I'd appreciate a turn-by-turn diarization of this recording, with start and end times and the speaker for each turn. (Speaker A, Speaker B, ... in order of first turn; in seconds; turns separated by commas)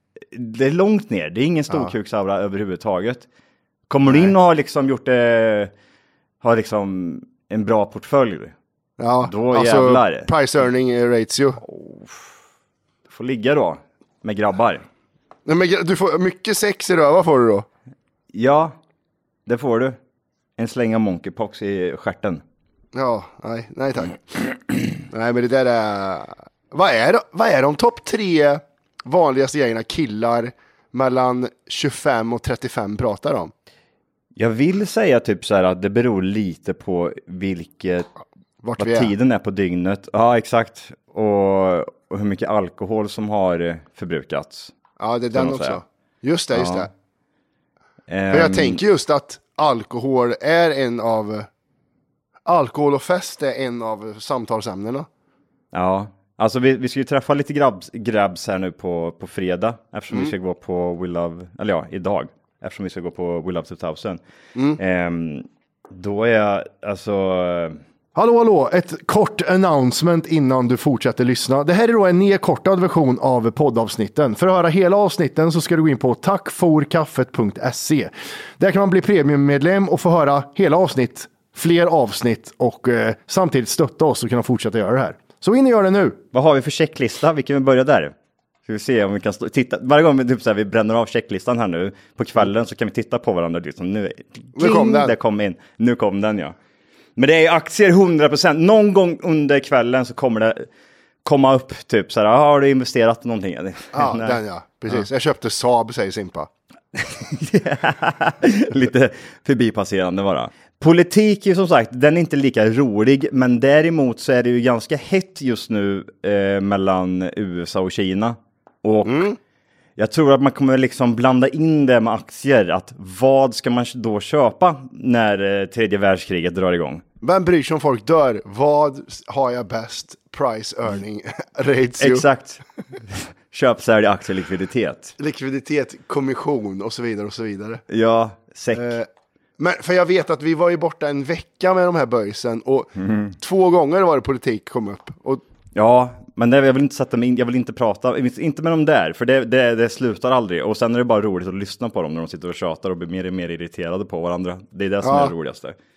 Speaker A: 0.3-3.2, Speaker A: 3.9-5.7, Speaker B: 4.0-4.3, Speaker A: 6.4-8.5, Speaker B: 9.0-11.6, Speaker A: 9.2-10.3, Speaker A: 11.6-12.3, Speaker A: 13.1-14.8, Speaker B: 15.4-17.6, Speaker A: 18.3-18.7, Speaker A: 19.4-20.0, Speaker A: 20.6-22.4, Speaker B: 22.9-24.2, Speaker B: 25.1-33.5, Speaker A: 34.3-38.1, Speaker B: 38.6-39.1, Speaker A: 38.8-44.7, Speaker B: 45.0-46.9, Speaker A: 45.3-45.8, Speaker A: 46.5-46.9, Speaker A: 48.1-48.8, Speaker B: 48.3-51.5, Speaker B: 52.5-55.1, Speaker A: 55.7-64.2, Speaker A: 64.8-67.8, Speaker C: 68.2-70.3, Speaker B: 69.6-71.3, Speaker C: 71.3-78.1, Speaker B: 78.6-82.6, Speaker C: 80.3-80.5, Speaker C: 81.2-86.1, Speaker A: 86.3-88.1, Speaker A: 88.7-96.5, Speaker B: 94.5-95.2, Speaker A: 97.2-100.6, Speaker A: 101.2-105.0, Speaker B: 103.9-106.5, Speaker A: 107.0-119.3, Speaker B: 119.0-119.3, Speaker A: 120.0-127.0, Speaker B: 127.2-132.2, Speaker A: 132.0-135.1, Speaker B: 135.2-137.8, Speaker A: 137.9-139.0, Speaker B: 138.7-139.1, Speaker B: 139.6-145.4, Speaker A: 143.0-143.3, Speaker A: 145.7-155.8, Speaker B: 155.0-155.3